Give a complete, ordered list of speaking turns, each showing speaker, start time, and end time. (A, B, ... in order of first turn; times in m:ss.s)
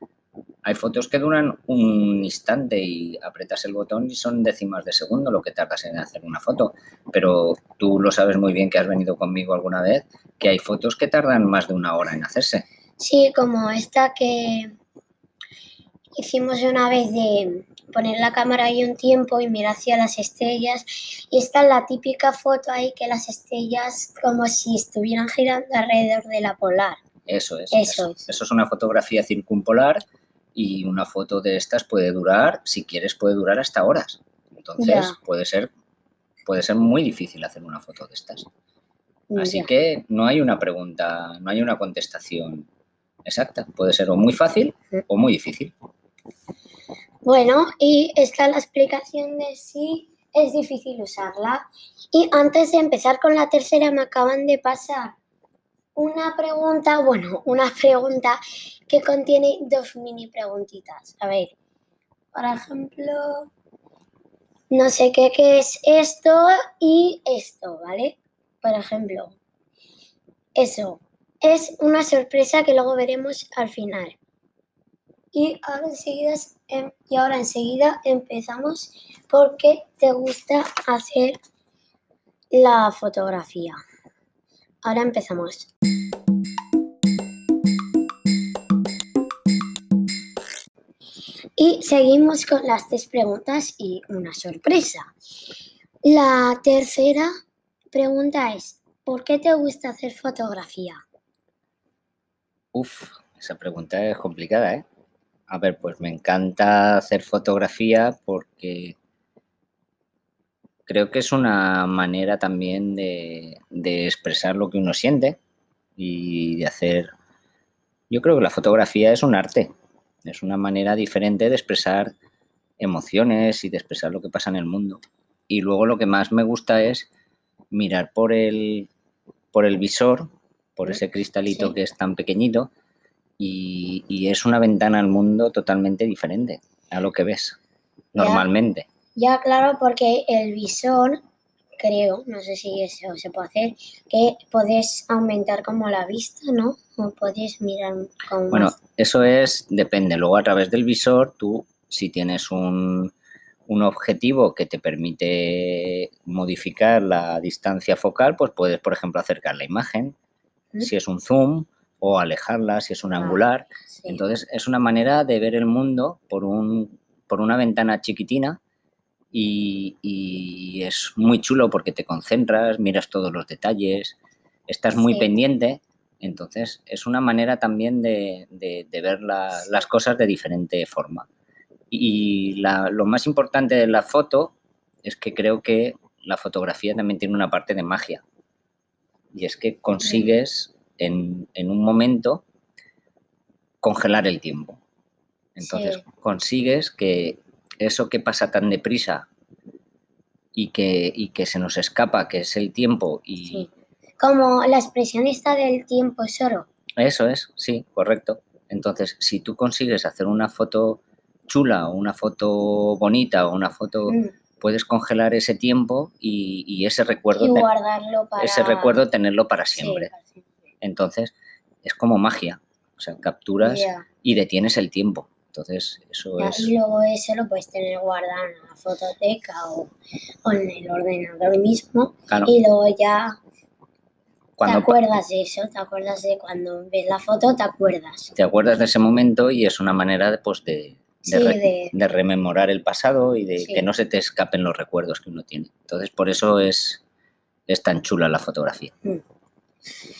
0:00.6-0:12.6 A
0:13.0-0:14.7 B
0:16.2-0:27.0 B
0:27.3-0:30.0 A
0:27.7-0:28.2 B
0:30.5-0:35.7 A
0:34.8-0:35.2 B
0:36.5-0:38.5 A
0:39.3-0:39.7 B
0:39.4-0:42.7 A
0:43.2-0:45.7 A
0:47.2-0:55.2 B
0:56.0-1:01.5 B
1:02.3-1:03.5 B
1:04.7-1:09.4 B
1:10.6-1:14.2 B
1:15.3-1:21.4 B
1:22.5-1:23.8 B
1:24.8-1:25.7 B
1:31.6-1:35.1 B
1:36.0-1:37.3 B
1:37.9-1:41.0 B
1:42.7-1:44.8 A
1:45.5-1:49.0 A
1:50.9-1:55.4 A
1:56.0-1:57.1 A
1:58.1-1:59.7 A
2:00.2-2:02.1 A
2:02.8-2:07.1 A
2:07.7-2:08.9 A
2:09.5-2:12.7 A
2:11.5-2:11.7 B
2:13.4-2:17.6 A
2:18.1-2:18.9 A
2:18.1-2:18.4 B
2:19.2-2:21.2 B
2:21.8-2:28.8 B
2:28.5-2:33.1 A
2:33.7-2:40.2 A
2:40.8-2:48.6 A
2:43.9-2:44.2 B
2:49.3-2:54.2 A
2:54.7-3:01.3 A
2:54.9-2:55.3 B
3:01.9-3:08.2 A
3:09.3-3:12.4 A
3:10.0-3:10.3 B
3:13.8-3:14.8 A
3:15.5-3:19.3 A
3:15.6-3:16.0 B
3:20.5-3:23.7 A
3:23.5-3:26.7 B
3:27.0-3:37.7 A
3:34.1-3:34.3 B
3:37.3-3:39.0 B
3:38.4-3:40.1 A
3:39.7-3:40.3 B
3:40.8-3:46.7 A
3:43.6-3:44.0 B
3:46.4-3:49.9 B
3:50.4-3:53.4 B
3:54.6-3:55.0 A
3:54.6-3:58.3 B
3:58.4-4:07.0 A
4:01.2-4:01.9 B
4:03.6-4:03.9 B
4:07.7-4:08.9 A